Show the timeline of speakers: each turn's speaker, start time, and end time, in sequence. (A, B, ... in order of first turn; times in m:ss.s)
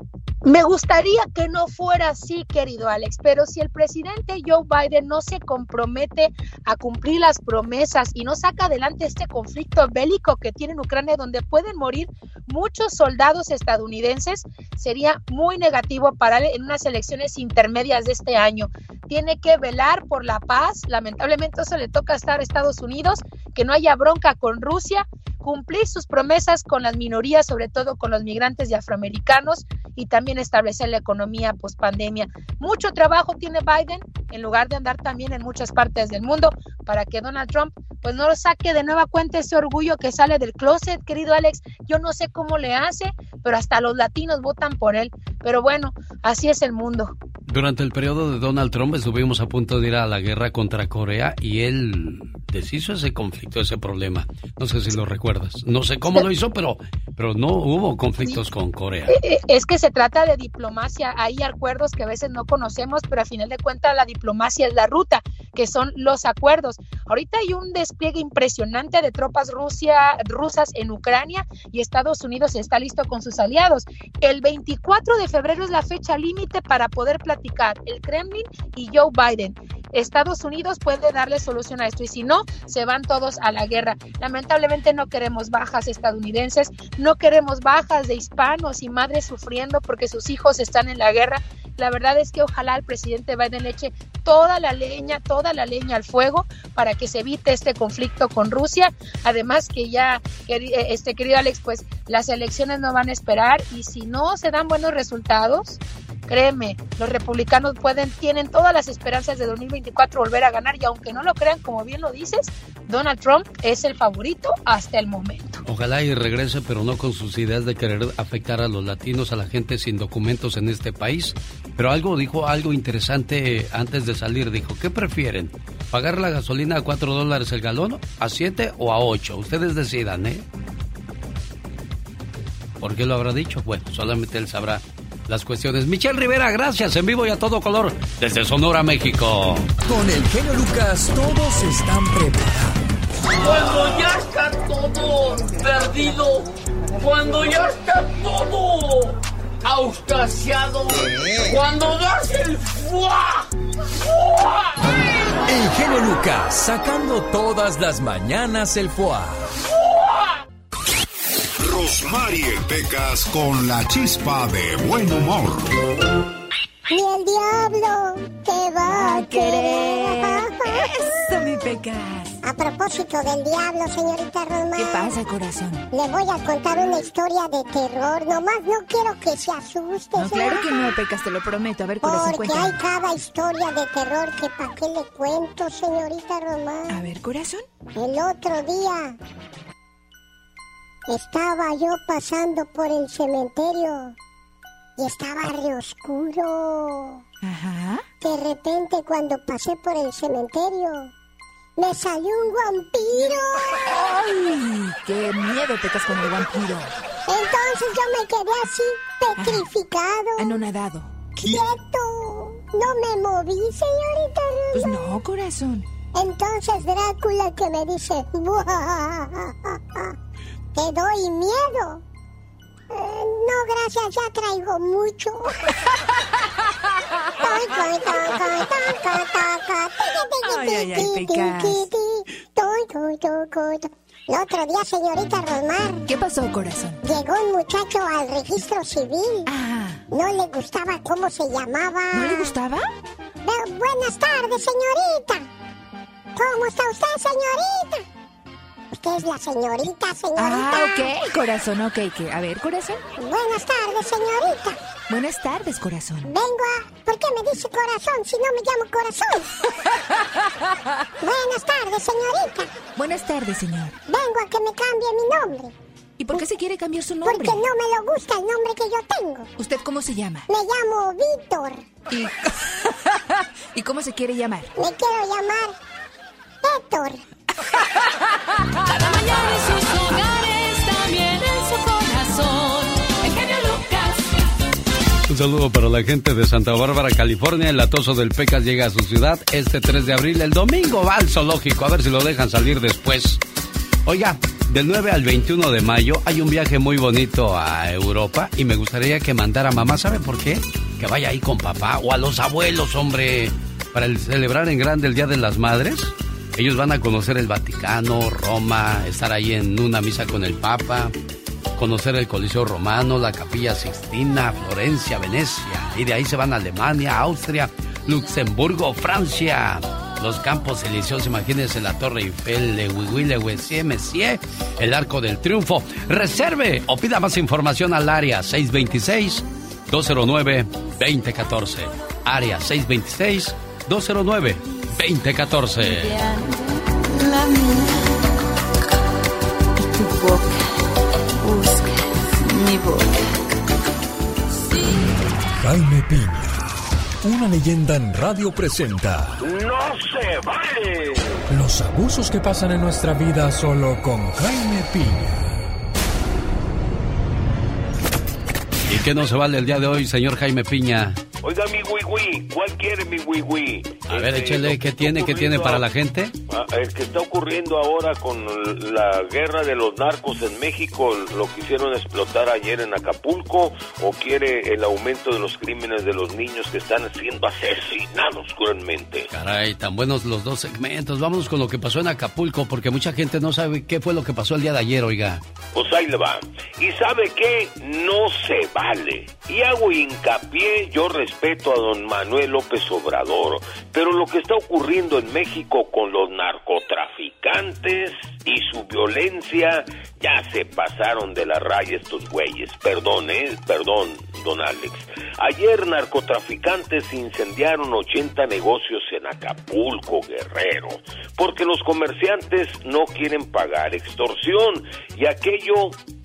0:00.4-0:47.2 A
0:47.5-0:59.2 B
0:59.1-1:55.6 A
1:55.6-2:10.5 B
2:12.8-2:19.7 B
2:19.8-2:22.8 C
2:23.3-2:26.5 D
2:27.0-2:33.5 D
2:34.1-2:34.6 D
2:35.5-2:39.5 C
2:41.6-2:45.7 E
2:46.9-2:51.2 F
2:48.9-2:52.4 G
2:52.4-2:55.2 F
2:54.8-2:55.9 G
2:55.9-3:00.9 F
3:00.2-3:02.8 G
3:02.0-3:07.0 F
3:06.9-3:07.6 G
3:08.0-3:09.2 F
3:11.1-3:14.2 F
3:15.0-3:17.2 F
3:17.4-3:18.0 G
3:18.2-3:21.1 F
3:21.8-3:23.8 F
3:23.9-3:26.9 G
3:27.3-3:30.6 F
3:29.4-3:29.7 G
3:30.4-3:31.6 G
3:31.4-3:35.0 F
3:34.7-3:35.9 G
3:36.1-3:40.2 F
3:40.8-3:42.0 F
3:42.9-3:45.6 F
3:47.4-3:56.0 F
3:50.4-3:51.8 G
3:56.1-3:57.0 G
3:57.0-3:59.5 F
3:59.5-4:00.0 G
4:00.1-4:02.5 F
4:02.1-4:02.9 G
4:03.4-4:05.4 F
4:06.4-4:08.0 F
4:08.9-4:11.3 F
4:10.4-4:13.0 G
4:13.2-4:14.8 F
4:15.1-4:16.3 G
4:16.2-4:19.5 F
4:21.2-4:22.8 F
4:23.0-4:24.0 G
4:24.1-4:25.7 F
4:26.2-4:27.6 G
4:27.2-4:29.5 F
4:29.6-4:30.5 G
4:30.5-4:31.9 F
4:32.1-4:33.2 G
4:33.7-4:34.7 G
4:34.8-4:35.8 F
4:36.6-4:37.2 F
4:38.9-4:44.3 H
4:45.3-4:53.4 B
4:54.1-5:11.1 B
5:11.8-5:36.2 B
5:45.6-5:46.7 C
5:47.2-5:49.4 C
5:49.5-5:51.1 I
5:51.5-5:55.6 C
5:58.9-6:01.2 B
6:01.4-6:05.8 I
6:04.1-6:06.3 B
6:06.5-6:19.3 I
6:19.3-6:25.4 B
6:25.7-6:55.9 I